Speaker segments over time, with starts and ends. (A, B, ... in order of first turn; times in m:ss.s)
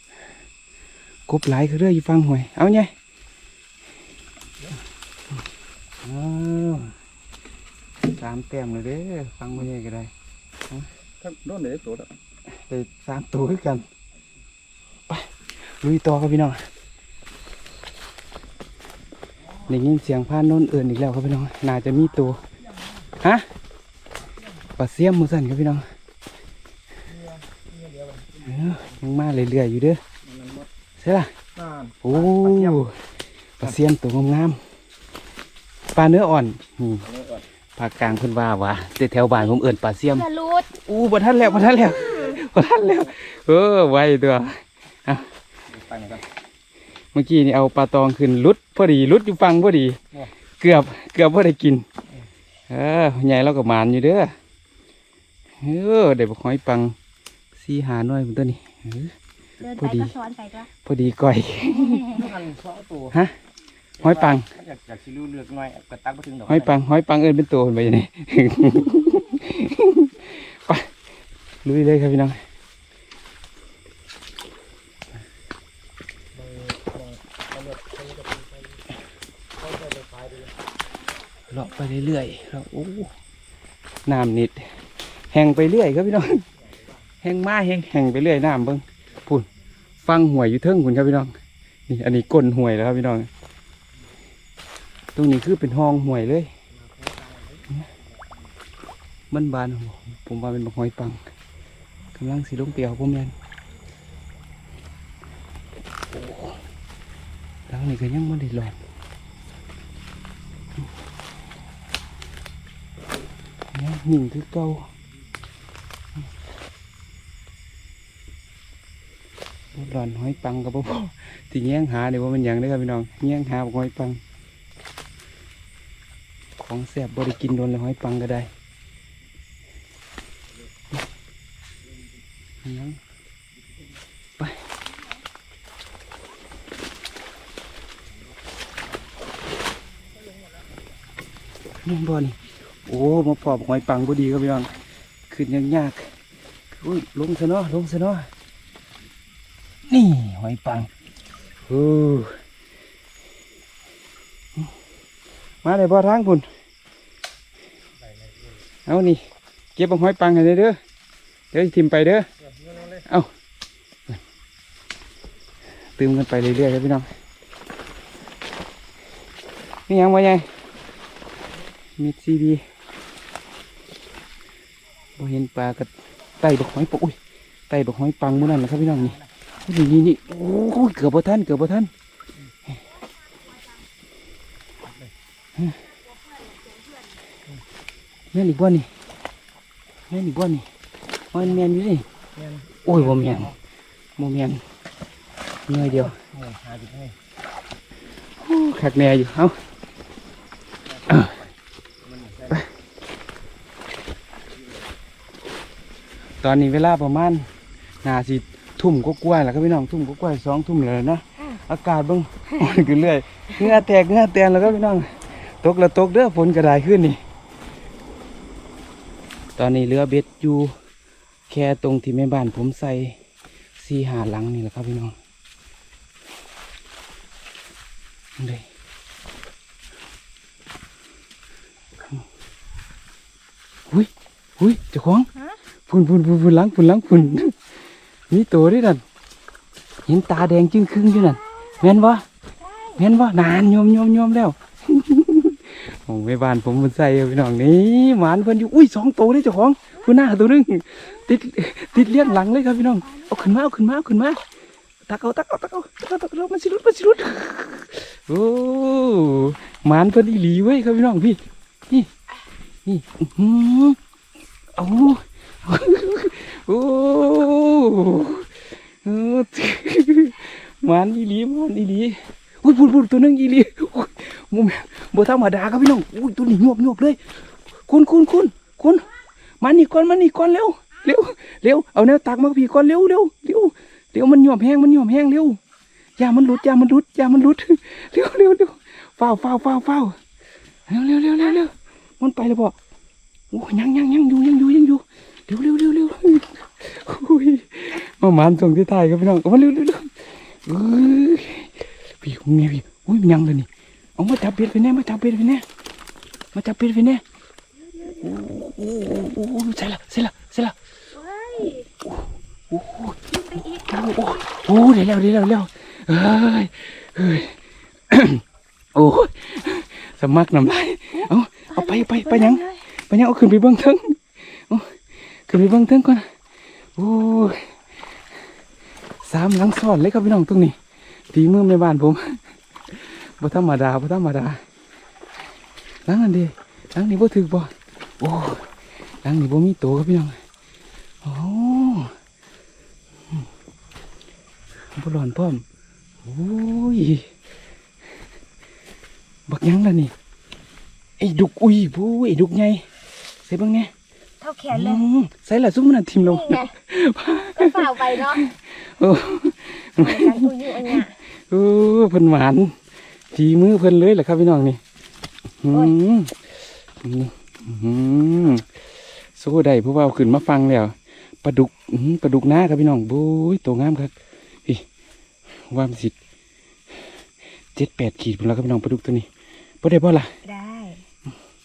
0:01.3-0:02.9 A
0:06.0-0:06.9 A
0:08.2-0:10.1 A
0:11.2-0:12.1 B
0:12.7-0:13.8 A
0:15.8-0:16.6 A
0:19.7-0:22.4 A
0:23.2-0:23.4 A
0:24.8-0:25.8 A
0:27.1-0:28.9 B
0:28.4-0:30.0 A
0:30.2-0:30.7 B
0:31.0-0:31.3 A
0:31.6-0:32.9 B
0:32.0-0:33.0 A
0:33.6-0:34.6 A
0:35.9-0:37.0 A
0:37.0-0:37.5 B
0:37.8-0:40.3 A
0:40.1-0:40.8 C
0:40.9-0:45.3 A
0:41.9-0:42.4 C
0:45.7-0:46.2 B
0:47.1-0:50.0 A
0:50.6-0:51.8 A
0:52.7-0:54.3 A
0:55.6-0:57.0 A
0:57.6-0:59.1 A
0:59.6-1:00.7 C
0:59.8-1:00.1 A
1:00.8-1:02.2 A
1:02.0-1:03.2 B
1:04.0-1:04.5 A
1:04.0-1:06.8 B
1:06.5-1:10.9 A
1:11.6-1:12.4 A
1:16.3-1:18.8 B
1:19.6-1:20.6 B
1:21.5-1:23.1 A
1:24.1-1:24.7 A
1:25.3-1:26.4 A
1:26.6-1:27.0 B
1:27.2-1:29.5 A
1:30.0-1:31.4 A
1:31.9-1:33.3 A
1:35.2-1:36.5 A
1:36.7-1:37.9 B
1:39.3-1:41.2 A
1:42.2-1:43.4 A
1:46.1-1:46.5 A
1:47.7-1:48.8 A
1:53.7-1:54.9 A
1:59.8-2:04.2 A
2:06.6-2:08.5 A
2:12.6-2:13.0 A
2:21.8-2:24.7 A
2:25.3-2:26.1 A
2:26.7-2:28.3 A
2:29.9-2:30.9 A
2:31.7-2:32.4 A
2:35.6-2:36.5 A
2:38.0-2:38.5 B
2:38.9-2:39.2 A
2:39.8-2:40.8 A
2:41.5-2:42.3 A
2:42.4-2:43.1 B
2:46.0-2:47.1 A
2:49.9-2:50.5 A
2:52.0-2:52.6 A
2:55.2-2:57.2 A
2:57.7-3:01.9 A
2:58.8-2:59.2 B
3:04.8-3:05.1 B
3:06.1-3:07.2 C
3:08.3-3:08.9 A
3:10.1-3:10.7 A
3:11.3-3:12.1 A
3:11.4-3:11.7 B
3:12.3-3:13.6 B
3:12.9-3:13.5 A
3:14.2-3:14.6 A
3:15.7-3:16.2 A
3:15.7-3:17.2 B
3:18.4-3:19.6 A
3:20.9-3:21.5 B
3:21.1-3:21.4 A
3:22.0-3:22.7 B
3:26.4-3:27.5 A
3:28.0-3:37.2 A
3:32.5-3:32.9 C
3:39.6-3:40.7 A
3:41.5-3:43.2 A
3:43.8-3:45.2 A
3:48.4-3:48.6 A
3:53.9-3:55.3 A
3:55.9-3:57.5 A
3:58.3-3:59.0 A
4:00.1-4:02.2 A
4:01.1-4:01.8 C
4:02.6-4:03.0 C
4:03.0-4:14.4 A
4:10.0-4:10.3 C
4:11.1-4:11.3 C
4:11.9-4:13.6 C
4:15.1-4:22.1 A
4:22.9-4:24.0 A
4:24.8-4:37.4 A
4:37.9-4:39.1 A
4:39.6-4:45.6 A
4:46.2-4:50.2 A
4:50.9-4:52.8 A
4:53.5-5:05.6 A
5:06.5-5:07.2 A
5:07.8-5:08.4 C
5:08.2-5:10.8 A
5:11.2-5:11.9 C
5:12.0-5:17.6 A
5:13.3-5:14.6 C
5:18.1-5:18.4 A
5:19.0-5:25.0 A
5:21.1-5:22.8 C
5:25.5-5:26.3 A
5:27.0-5:27.7 A
5:29.2-5:30.8 A
5:31.3-5:34.6 A
5:36.1-5:38.7 A
5:39.2-5:40.4 A
5:41.2-5:42.1 A
5:45.0-5:45.6 A
5:46.2-5:47.3 A
5:49.5-5:50.1 A
5:51.2-5:52.9 A
5:53.4-5:53.9 A
5:54.4-5:55.0 C
5:54.7-6:02.8 A
5:56.2-5:56.7 C
5:57.6-5:58.4 C
6:00.0-6:01.1 C
6:03.3-6:04.8 A
6:05.6-6:08.7 A
6:09.3-6:14.1 A
6:15.7-6:16.2 A
6:17.8-6:19.3 A
6:19.8-6:20.3 A
6:20.4-6:21.0 C